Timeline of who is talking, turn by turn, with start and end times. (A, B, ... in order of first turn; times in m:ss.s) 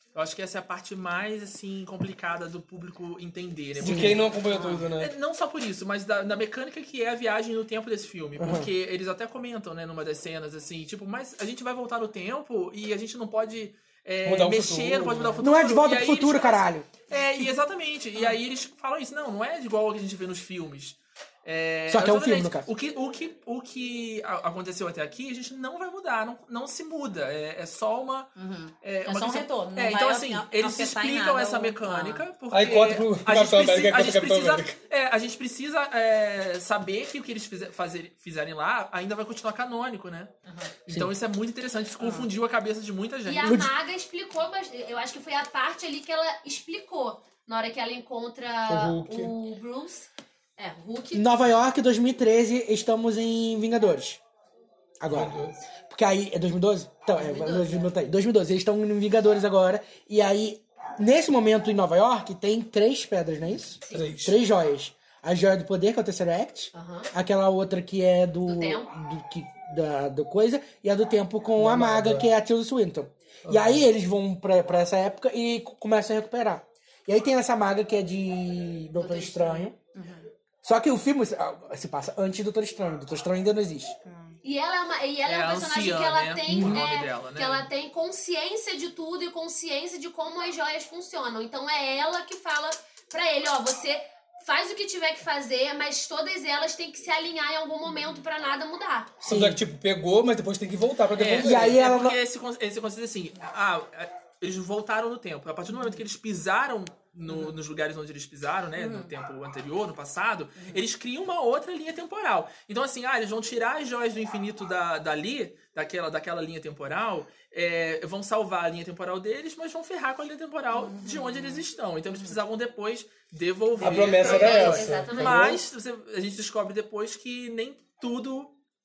0:00.1-0:04.2 A
0:03.8-0:05.1 B
0:03.8-0:04.2 C
0:04.5-0:04.9 D
0:05.0-0:28.3 A
0:08.4-0:08.7 C
0:14.2-0:15.4 B
0:15.4-0:17.5 C
0:21.9-0:22.7 C
0:28.4-0:32.2 D
0:28.8-0:40.3 A
0:32.5-0:34.8 B
0:40.4-0:40.7 D
0:40.8-0:43.6 A
0:42.0-0:42.3 D
0:43.2-0:51.3 E
0:43.4-0:43.7 C
0:48.7-0:49.3 B
0:51.1-0:54.2 C
0:55.0-1:19.8 C
0:55.1-0:55.6 B
0:57.2-0:57.9 E
1:03.9-1:04.4 B
1:06.7-1:07.1 E
1:08.4-1:08.9 E
1:11.6-1:12.3 B
1:13.4-1:13.8 B
1:19.0-1:19.7 E
1:19.9-1:20.3 D
1:20.6-1:24.0 C
1:24.0-1:24.3 D
1:24.4-1:39.2 E
1:25.2-1:27.7 A
1:26.5-1:26.8 C
1:39.2-1:39.6 C
1:39.2-1:41.9 B
1:41.1-2:08.5 A
1:41.4-1:42.2 C
1:48.8-1:49.1 D
1:50.6-1:50.8 D
2:00.7-2:02.4 D
2:03.8-2:05.6 B
2:04.1-2:05.5 E